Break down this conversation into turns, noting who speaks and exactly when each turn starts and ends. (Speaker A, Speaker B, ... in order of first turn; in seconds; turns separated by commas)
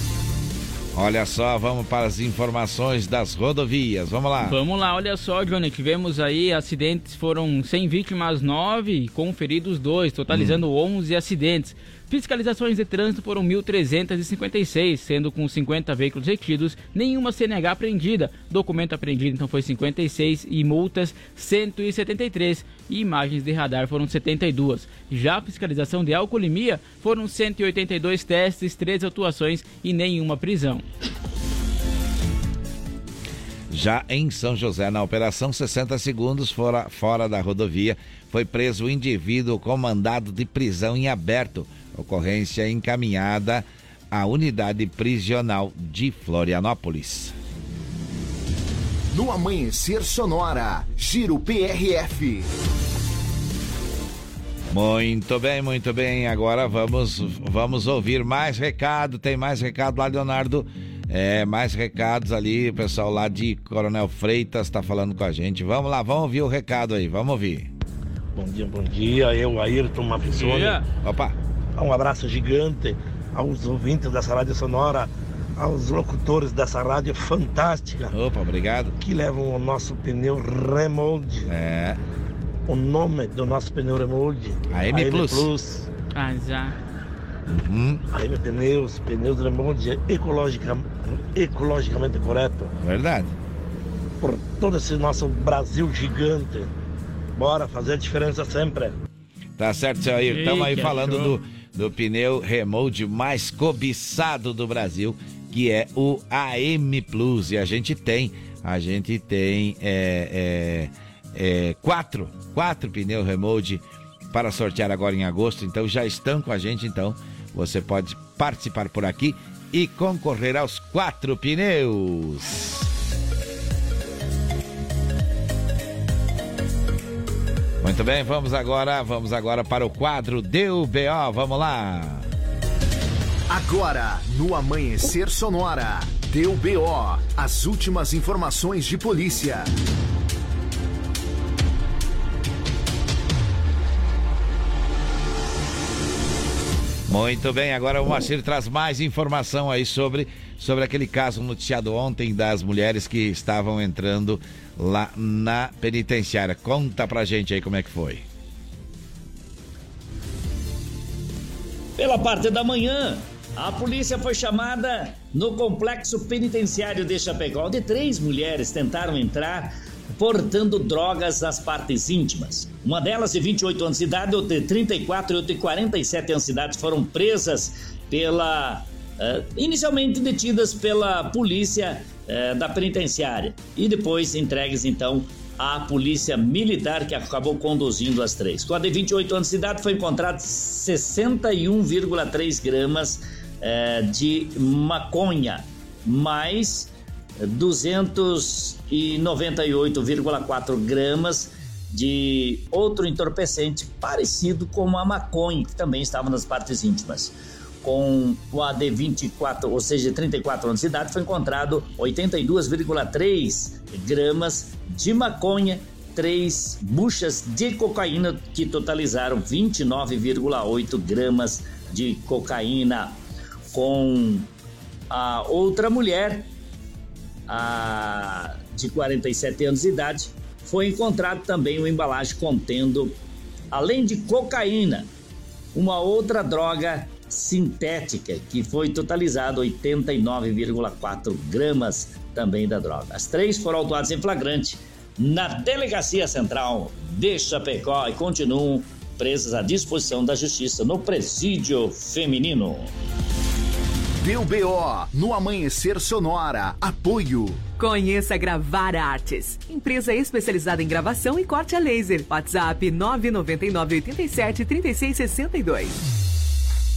Speaker A: 0.9-4.6, Speaker B: 4.4-30.9, Speaker A: 10.3-10.6, Speaker A: 33.7-47.3, Speaker C: 49.1-52.5, Speaker A: 54.7-67.7, Speaker D: 68.4-70.8, Speaker B: 70.4-70.8, Speaker A: 71.0-71.3, Speaker D: 71.8-78.1, Speaker A: 78.1-79.0, Speaker D: 79.0-81.5, Speaker A: 81.5-82.0, Speaker D: 82.7-85.9, Speaker A: 84.7-85.5, Speaker B: 86.1-86.8, Speaker A: 87.6-88.0, Speaker D: 88.1-92.7, Speaker A: 92.8-93.3, Speaker D: 94.2-96.7, Speaker D: 97.4-98.9, Speaker A: 99.6-122.9, Speaker B: 100.3-101.3, Speaker A: 127.8-132.2, Speaker C: 133.5-139.7, Speaker A: 147.1-158.2, Speaker E: 162.0-196.9, Speaker E: 197.4-223.2, Speaker E: 223.7-224.5, Speaker E: 225.1-226.5, Speaker E: 227.5-233.2, Speaker E: 233.7-235.1, Speaker E: 235.7-252.9, Speaker C: 254.2-257.6, Speaker F: 257.8-266.0